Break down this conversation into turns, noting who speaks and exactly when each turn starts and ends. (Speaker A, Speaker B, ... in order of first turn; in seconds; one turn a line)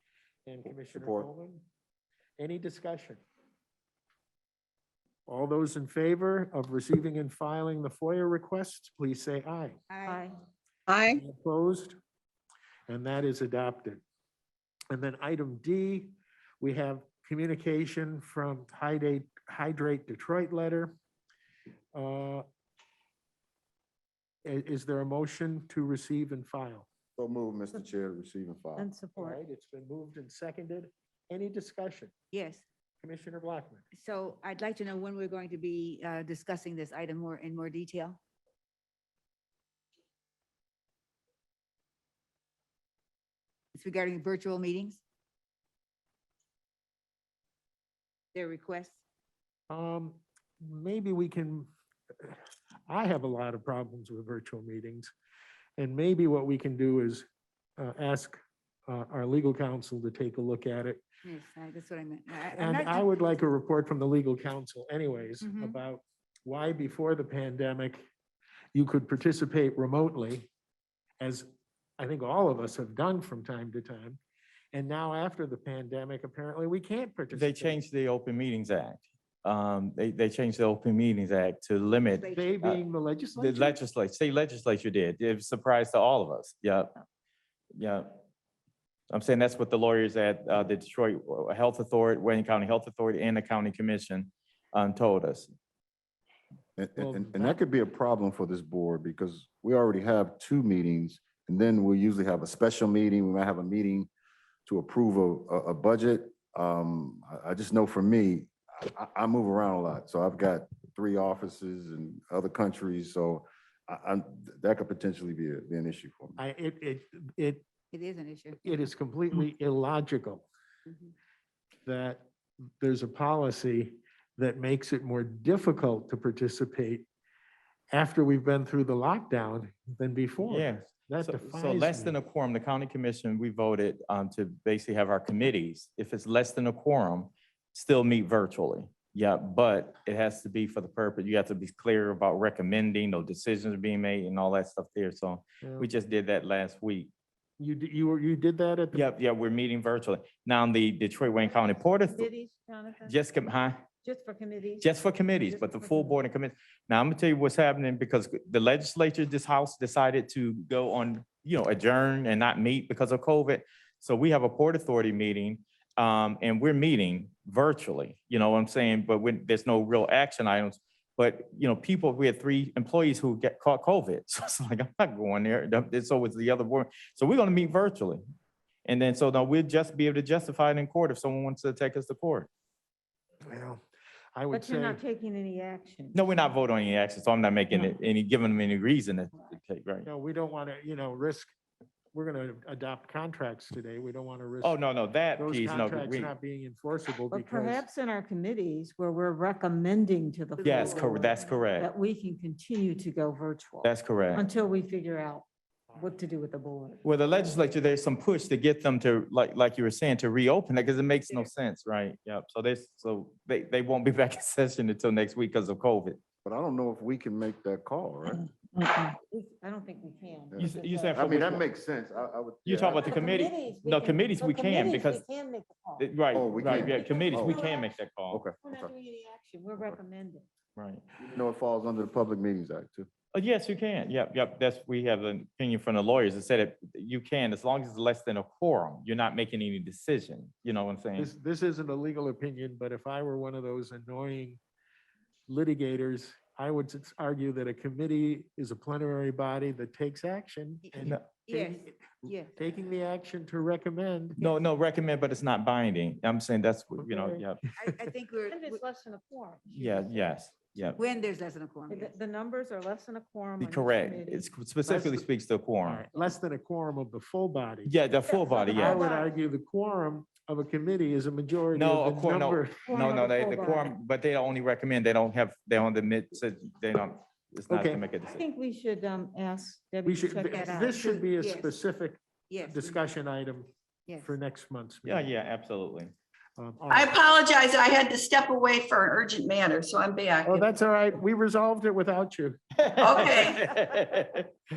Speaker A: 0.5-1.6
Speaker B: 0.6-1.3
Speaker A: 2.4-3.2
Speaker A: 5.3-9.8
Speaker C: 9.9-10.2
Speaker D: 10.1-10.4
Speaker E: 10.9-11.2
Speaker A: 11.1-12.0
Speaker A: 12.9-14.0
Speaker A: 14.9-20.9
Speaker A: 21.9-22.4
Speaker A: 24.4-26.9
Speaker B: 27.1-28.9
Speaker D: 28.8-29.4
Speaker A: 29.1-32.1
Speaker C: 32.3-32.6
Speaker A: 33.0-33.8
Speaker C: 33.9-38.2
Speaker C: 43.7-45.0
Speaker C: 48.3-49.0
Speaker A: 49.7-51.7
Speaker A: 52.2-55.1
Speaker A: 55.8-57.2
Speaker A: 57.8-61.0
Speaker C: 61.2-63.1
Speaker A: 62.5-68.0
Speaker C: 65.4-65.8
Speaker A: 68.7-70.5
Speaker A: 71.2-74.2
Speaker A: 74.7-77.8
Speaker F: 77.3-82.8
Speaker C: 82.2-82.7
Speaker A: 82.3-83.8
Speaker F: 83.3-86.9
Speaker F: 87.7-88.2
Speaker F: 89.1-95.5
Speaker B: 96.8-104.1
Speaker A: 97.0-97.6
Speaker B: 104.7-116.4
Speaker A: 116.4-117.6
Speaker C: 117.9-118.6
Speaker A: 118.6-120.5
Speaker C: 120.9-121.1
Speaker A: 121.8-122.3
Speaker A: 122.8-127.1
Speaker A: 127.9-132.2
Speaker F: 130.4-147.1
Speaker A: 145.6-145.9
Speaker A: 147.6-149.1
Speaker F: 148.9-152.3
Speaker D: 151.4-153.2
Speaker F: 153.0-153.8
Speaker D: 154.0-156.2
Speaker F: 154.8-178.2
Speaker F: 178.8-182.5
Speaker A: 183.4-183.8
Speaker A: 184.3-185.0
Speaker D: 184.5-186.2
Speaker F: 186.1-190.1
Speaker A: 190.0-191.5
Speaker A: 192.1-194.8
Speaker F: 194.6-196.3
Speaker A: 195.3-197.8
Speaker D: 197.3-207.0
Speaker F: 200.6-201.9
Speaker A: 200.6-200.9
Speaker F: 203.8-204.5
Speaker A: 205.9-206.2
Speaker F: 207.0-216.2
Speaker B: 216.4-218.4
Speaker D: 218.3-221.5
Speaker B: 220.5-223.1
Speaker F: 220.6-221.6
Speaker F: 222.6-225.2
Speaker D: 222.9-226.1
Speaker F: 226.0-228.4
Speaker B: 226.3-227.6
Speaker D: 226.7-227.8
Speaker B: 228.3-228.9
Speaker D: 228.6-230.4
Speaker F: 230.8-231.0
Speaker B: 231.2-233.1
Speaker F: 233.3-241.3
Speaker A: 241.2-244.6
Speaker A: 245.5-254.4
Speaker C: 250.8-252.5
Speaker F: 251.0-251.2
Speaker F: 254.4-257.6
Speaker D: 257.0-257.4
Speaker C: 257.7-258.8
Speaker D: 258.4-260.3
Speaker F: 259.7-261.0
Speaker C: 261.0-262.1
Speaker D: 261.9-264.5
Speaker F: 263.6-266.0
Speaker A: 264.9-265.2
Speaker A: 265.8-267.9
Speaker F: 267.9-269.0
Speaker D: 268.3-269.4
Speaker A: 268.7-273.0
Speaker F: 271.7-278.4
Speaker D: 272.9-273.9
Speaker A: 277.7-278.0
Speaker D: 278.2-280.9
Speaker A: 280.0-283.7
Speaker C: 280.4-281.7
Speaker C: 282.5-283.0
Speaker C: 284.1-284.3
Speaker A: 284.2-285.3
Speaker F: 285.0-286.1
Speaker A: 286.6-287.2
Speaker E: 286.9-290.7
Speaker A: 290.4-292.6
Speaker F: 292.8-294.5
Speaker E: 293.0-293.7